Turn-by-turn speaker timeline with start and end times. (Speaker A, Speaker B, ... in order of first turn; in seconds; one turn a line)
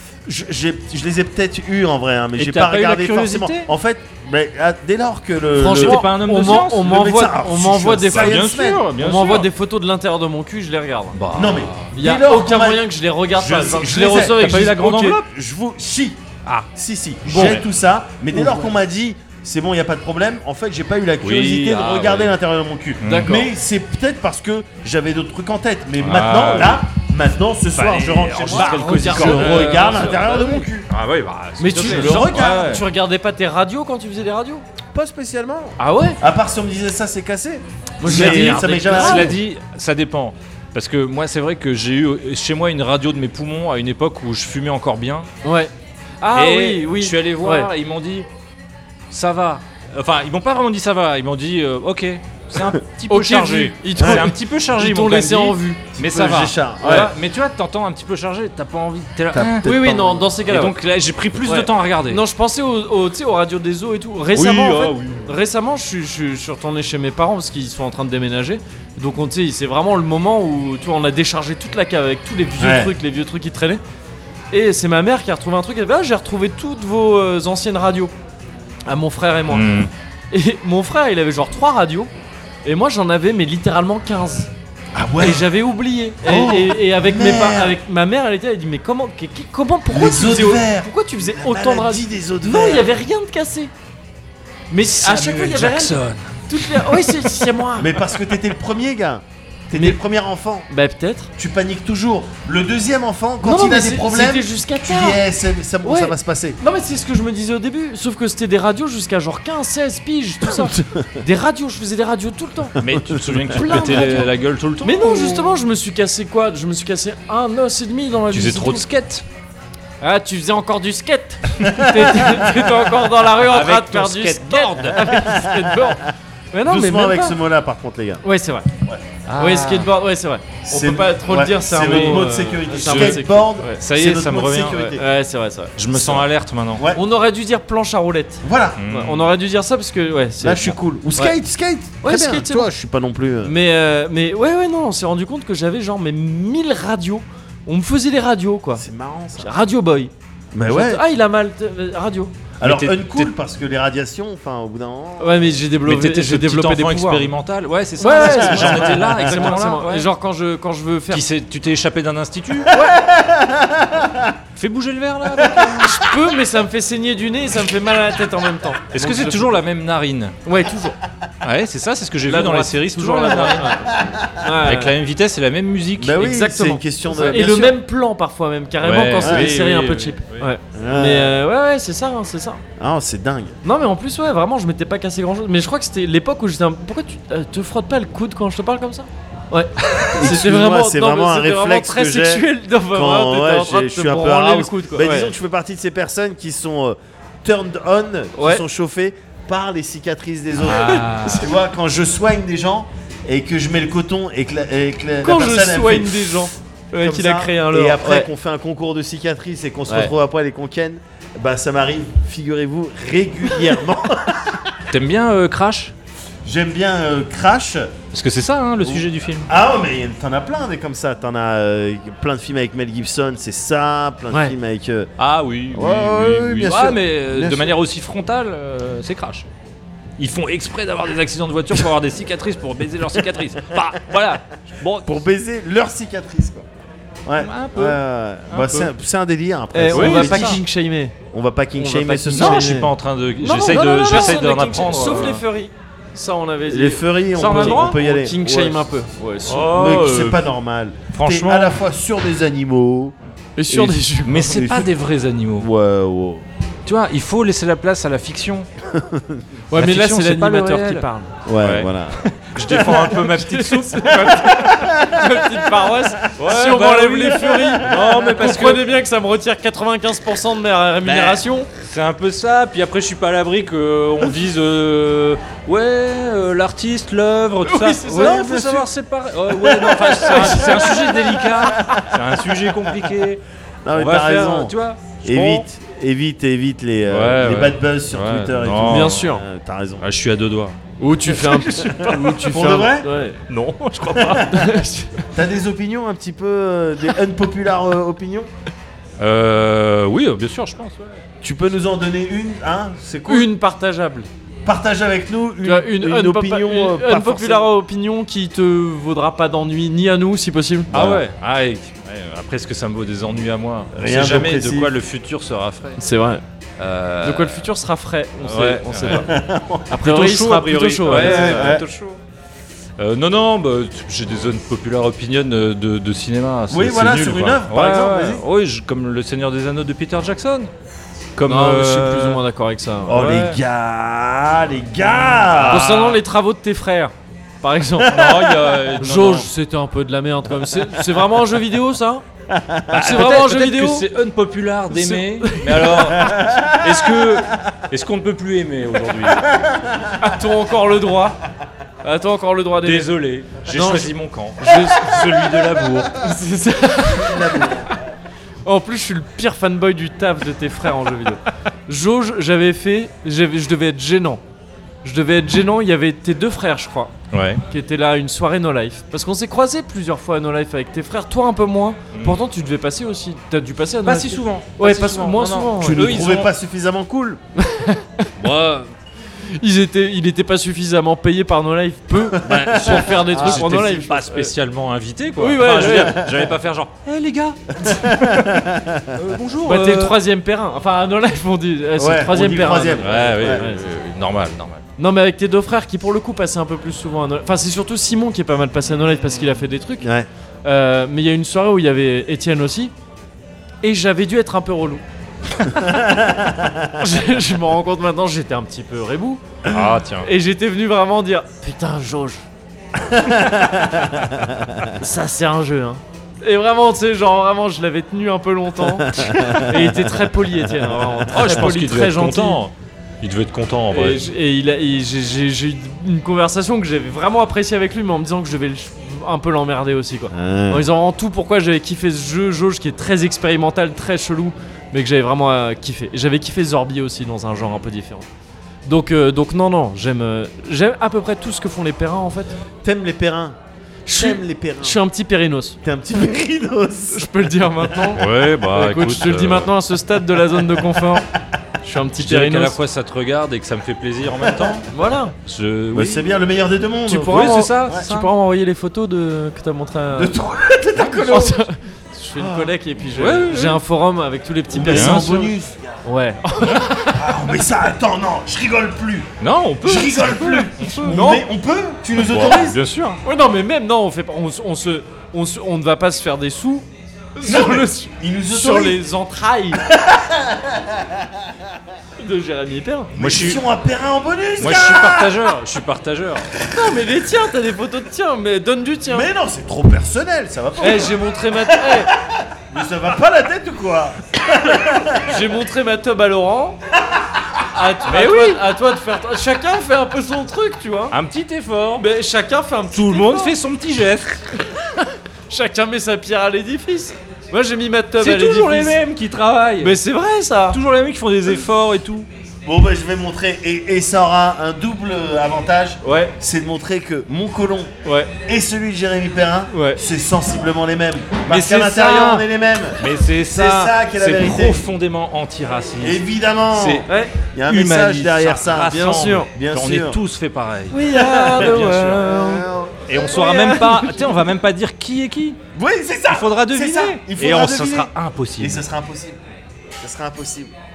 Speaker A: 0.3-8.8
Speaker B: 2.4-3.7
Speaker C: 5.6-11.2
Speaker B: 5.8-6.9
Speaker B: 8.1-9.5
Speaker B: 11.1-11.9
Speaker A: 11.3-14.4
Speaker C: 11.9-15.2
Speaker B: 14.4-15.2
Speaker A: 15.0-30.9
Speaker B: 17.3-17.6
Speaker C: 17.3-17.6
Speaker C: 18.4-18.6
Speaker B: 21.2-22.4
Speaker B: 23.0-23.4
Speaker C: 23.0-23.5
Speaker B: 26.0-26.8
Speaker B: 27.8-32.8
Speaker C: 28.4-30.3
Speaker C: 31.6-34.6
Speaker A: 31.8-32.8
Speaker A: 34.9-39.4
Speaker C: 35.8-36.2
Speaker C: 38.0-39.3
Speaker B: 38.0-45.3
Speaker C: 45.4-47.7
Speaker B: 46.3-48.3
Speaker B: 49.1-59.7
Speaker C: 53.1-55.9
Speaker A: 54.0-54.3
Speaker A: 56.0-57.1
Speaker C: 56.8-57.1
Speaker A: 59.3-60.3
Speaker C: 59.6-60.7
Speaker B: 60.5-62.2
Speaker C: 61.4-73.8
Speaker B: 64.3-65.3
Speaker A: 72.6-72.9
Speaker C: 74.5-78.1
Speaker C: 78.9-79.8
Speaker B: 79.5-79.9
Speaker C: 80.3-82.1
Speaker C: 82.7-84.5
Speaker A: 85.0-85.5
Speaker C: 85.2-93.7
Speaker A: 86.2-87.8
Speaker A: 89.9-92.9
Speaker C: 94.7-97.9
Speaker B: 94.8-97.3
Speaker A: 97.8-100.7
Speaker C: 99.7-100.0
Speaker C: 100.7-101.3
Speaker A: 101.4-106.6
Speaker C: 103.4-105.2
Speaker C: 105.8-112.8
Speaker A: 110.7-111.0
Speaker A: 112.8-114.2
Speaker B: 112.8-115.5
Speaker C: 113.5-114.3
Speaker C: 114.8-118.9
Speaker B: 118.3-119.2
Speaker C: 120.0-127.4
Speaker A: 121.6-122.4
Speaker B: 123.4-125.2
Speaker A: 125.0-125.9
Speaker A: 126.7-128.2
Speaker C: 128.2-128.7
Speaker A: 128.8-129.1
Speaker B: 129.3-129.9
Speaker C: 129.4-133.8
Speaker A: 130.7-135.0
Speaker B: 131.7-134.9
Speaker C: 134.8-135.7
Speaker B: 135.8-136.9
Speaker A: 135.9-136.2
Speaker A: 136.8-137.0
Speaker C: 136.9-141.4
Speaker A: 138.4-138.8
Speaker B: 138.8-139.3
Speaker A: 140.4-143.5
Speaker C: 142.0-142.7
Speaker C: 143.4-148.8
Speaker A: 148.8-149.6
Speaker C: 149.4-150.1
Speaker A: 150.5-151.0
Speaker C: 150.7-152.3
Speaker A: 152.6-155.5
Speaker B: 152.6-153.3
Speaker C: 155.2-157.3
Speaker B: 155.9-160.1
Speaker C: 158.0-161.2
Speaker A: 158.1-159.3
Speaker B: 161.1-162.7
Speaker A: 162.7-164.3
Speaker C: 162.7-163.0
Speaker B: 164.6-166.0
Speaker A: 165.4-165.8
Speaker C: 165.8-169.6
Speaker B: 168.9-170.3
Speaker C: 170.5-171.0
Speaker B: 171.4-173.7
Speaker C: 172.2-174.9
Speaker B: 174.6-176.3
Speaker A: 176.0-177.7
Speaker C: 176.2-182.6
Speaker B: 177.1-177.7
Speaker B: 178.8-180.5
Speaker A: 179.2-179.5
Speaker A: 180.7-181.4
Speaker A: 182.8-183.6
Speaker C: 183.6-195.3
Speaker A: 190.1-214.7
Speaker C: 198.4-198.6
Speaker B: 200.6-201.5
Speaker C: 200.7-201.5
Speaker C: 205.2-208.3
Speaker B: 214.9-215.9
Speaker A: 216.4-217.9
Speaker B: 218.1-219.5
Speaker A: 218.8-225.1
Speaker B: 225.2-229.5
Speaker A: 225.7-227.8
Speaker B: 230.2-235.2
Speaker A: 235.0-236.7
Speaker A: 237.3-240.6
Speaker B: 237.4-238.0
Speaker B: 238.5-238.9
Speaker C: 239.7-241.2
Speaker B: 239.9-240.6
Speaker A: 241.3-242.8
Speaker C: 241.8-242.9
Speaker B: 242.3-245.4
Speaker C: 243.4-250.0
Speaker A: 246.7-248.9
Speaker B: 247.5-247.8
Speaker B: 249.5-250.4
Speaker A: 249.7-253.2
Speaker B: 251.1-251.8
Speaker C: 253.6-254.7
Speaker B: 253.7-255.7
Speaker A: 254.4-254.9
Speaker A: 255.6-256.5
Speaker B: 256.9-258.7
Speaker A: 258.9-259.4
Speaker C: 259.7-261.3
Speaker B: 259.7-261.1
Speaker A: 261.5-262.3
Speaker B: 261.6-261.9
Speaker C: 262.3-271.7
Speaker B: 262.5-264.5
Speaker A: 264.5-265.6
Speaker B: 266.4-268.9
Speaker A: 267.5-268.1
Speaker A: 271.1-271.4
Speaker B: 271.9-285.6
Speaker C: 277.6-278.4
Speaker A: 278.2-278.9
Speaker A: 279.5-282.1
Speaker C: 280.3-281.0
Speaker A: 283.9-290.1
Speaker B: 287.1-289.2
Speaker C: 288.9-289.4
Speaker B: 290.0-290.8
Speaker C: 291.0-293.4
Speaker B: 291.3-292.3
Speaker A: 291.7-293.1
Speaker B: 293.5-294.8
Speaker A: 294.1-294.6
Speaker C: 294.5-295.2
Speaker A: 295.3-298.5
Speaker B: 299.2-301.2
Speaker A: 301.4-303.5
Speaker C: 303.3-304.3
Speaker A: 304.7-307.7
Speaker C: 305.6-310.9
Speaker A: 310.9-311.2
Speaker B: 310.9-316.0
Speaker A: 313.9-314.9
Speaker C: 316.0-316.4
Speaker B: 316.8-317.7
Speaker C: 317.2-319.3
Speaker B: 318.4-319.3
Speaker A: 319.1-319.9
Speaker C: 319.9-321.8
Speaker B: 319.9-322.2
Speaker A: 321.1-321.9
Speaker B: 323.0-330.7
Speaker A: 326.7-328.4
Speaker B: 331.4-332.4
Speaker C: 331.5-333.4
Speaker A: 333.1-336.0
Speaker B: 333.2-333.6
Speaker B: 335.0-336.2
Speaker C: 335.7-338.2
Speaker A: 338.0-338.7
Speaker B: 338.1-339.5
Speaker C: 339.0-342.2
Speaker A: 342.5-343.4
Speaker B: 342.9-349.5
Speaker C: 343.0-344.0
Speaker C: 344.9-346.2
Speaker A: 346.2-346.9
Speaker A: 349.5-350.1
Speaker C: 350.2-351.4
Speaker C: 352.0-353.1
Speaker B: 352.8-356.1
Speaker C: 353.6-354.1
Speaker C: 354.6-355.2
Speaker C: 356.2-357.7
Speaker A: 357.1-358.1
Speaker C: 358.6-364.4
Speaker C: 365.0-367.1
Speaker B: 367.3-367.6
Speaker C: 367.7-376.1
Speaker B: 372.1-372.4
Speaker B: 374.1-376.5
Speaker A: 375.8-377.4
Speaker C: 377.6-378.3
Speaker B: 378.4-378.9
Speaker C: 379.6-384.5
Speaker A: 382.4-383.8
Speaker B: 382.4-388.6
Speaker C: 385.4-386.2
Speaker A: 385.9-386.3
Speaker A: 387.9-389.1
Speaker B: 389.1-390.2
Speaker C: 389.6-394.1
Speaker A: 392.0-393.7
Speaker B: 393.0-394.8
Speaker C: 395.0-400.1
Speaker A: 400.0-400.3
Speaker C: 400.6-402.9
Speaker C: 403.8-405.0
Speaker C: 405.6-406.1
Speaker A: 405.8-407.0
Speaker C: 407.0-409.4
Speaker B: 409.7-410.3
Speaker C: 410.2-412.5
Speaker A: 413.0-414.9
Speaker C: 415.0-422.6
Speaker A: 419.0-421.2
Speaker B: 421.3-424.3
Speaker C: 423.9-438.3
Speaker A: 430.3-430.9
Speaker C: 438.9-442.6
Speaker A: 442.8-443.6
Speaker C: 444.1-445.8
Speaker A: 444.1-445.0
Speaker A: 445.8-448.1
Speaker C: 447.1-451.3
Speaker B: 448.1-449.7
Speaker C: 451.8-452.8
Speaker B: 452.2-454.9
Speaker A: 454.4-454.8
Speaker C: 454.9-455.4
Speaker B: 455.4-456.2
Speaker A: 455.9-458.1
Speaker C: 457.1-460.3
Speaker B: 457.2-458.3
Speaker A: 460.1-461.7
Speaker C: 461.0-465.5
Speaker A: 462.4-462.7
Speaker B: 463.1-463.8
Speaker A: 464.7-465.9
Speaker B: 464.9-465.2
Speaker C: 466.1-467.3
Speaker A: 467.1-469.3
Speaker B: 469.4-471.4
Speaker A: 469.8-472.8
Speaker B: 472.2-473.2
Speaker C: 473.2-476.9
Speaker C: 477.4-479.8
Speaker A: 477.4-479.0
Speaker A: 479.8-481.5
Speaker C: 482.2-483.1
Speaker A: 483.2-485.3
Speaker B: 483.2-483.6
Speaker B: 484.6-486.5
Speaker C: 486.7-489.3
Speaker A: 489.1-495.3
Speaker C: 490.8-492.1
Speaker C: 495.2-496.8
Speaker C: 497.7-501.1
Speaker B: 498.1-498.6
Speaker B: 501.1-502.1
Speaker C: 502.0-503.5
Speaker B: 502.9-504.4
Speaker C: 505.5-509.0
Speaker B: 508.2-510.0
Speaker C: 509.8-510.8
Speaker B: 510.7-512.3
Speaker A: 512.7-517.9
Speaker B: 516.1-516.3
Speaker C: 518.0-518.3
Speaker A: 518.5-524.9
Speaker C: 519.7-520.0
Speaker B: 521.5-522.5
Speaker B: 523.0-527.1
Speaker A: 526.0-530.2
Speaker C: 527.1-527.4
Speaker B: 527.7-532.2
Speaker C: 528.8-529.5
Speaker C: 530.9-532.6
Speaker A: 531.1-534.2
Speaker B: 533.1-535.6
Speaker C: 533.4-534.3
Speaker A: 535.8-539.4
Speaker B: 536.3-538.8
Speaker A: 540.0-540.7